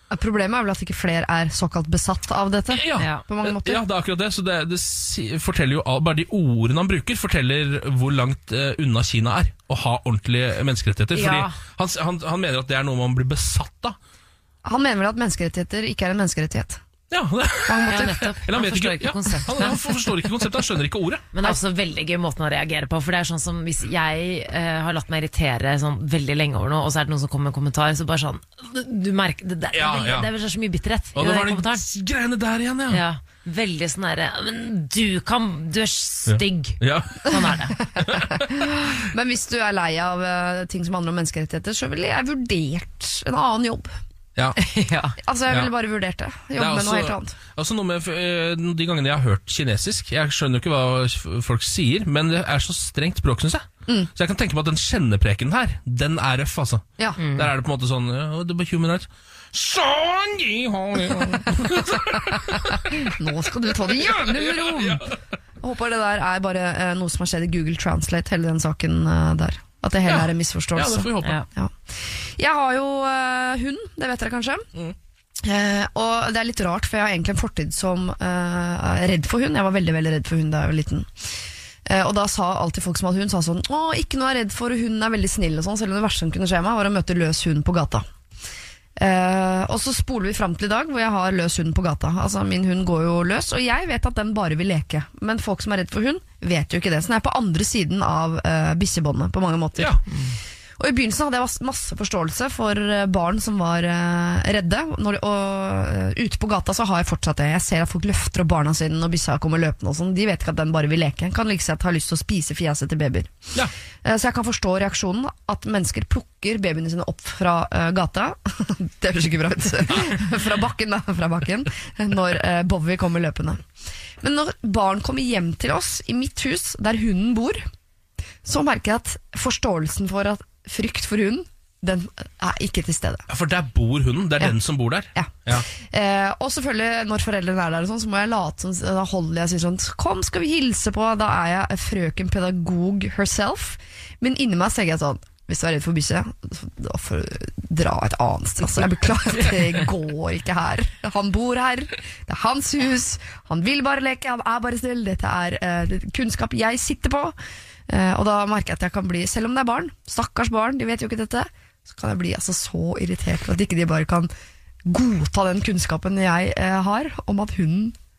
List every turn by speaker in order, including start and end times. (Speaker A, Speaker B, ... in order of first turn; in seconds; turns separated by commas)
Speaker A: 0.1-3.8, Speaker B: 2.7-14.0, Speaker C: 3.0-3.2, Speaker C: 11.1-11.6, Speaker A: 14.6-16.8, Speaker B: 17.1-21.2, Speaker A: 17.7-18.3, Speaker C: 17.9-20.1, Speaker C: 21.3-31.8, Speaker B: 29.7-30.3, Speaker B: 31.1-33.0, Speaker C: 32.9-37.8, Speaker B: 36.3-37.4, Speaker B: 38.0-38.5, Speaker A: 38.0-44.0, Speaker C: 44.6-45.2, Speaker A: 45.2-47.4, Speaker B: 46.6-63.1, Speaker C: 57.2-57.5, Speaker A: 61.2-62.2, Speaker A: 62.9-65.0, Speaker B: 63.7-65.2, Speaker A: 65.6-74.7, Speaker B: 70.0-71.4, Speaker A: 75.4-81.3, Speaker A: 81.8-88.0, Speaker A: 89.0-100.1, Speaker C: 100.1-100.4, Speaker A: 100.8-113.5, Speaker A: 114.0-123.6, Speaker A: 124.2-127.7, Speaker A: 128.4-133.2, Speaker B: 133.3-135.7, Speaker A: 135.1-157.3, Speaker A: 157.9-164.3, Speaker A: 164.8-167.9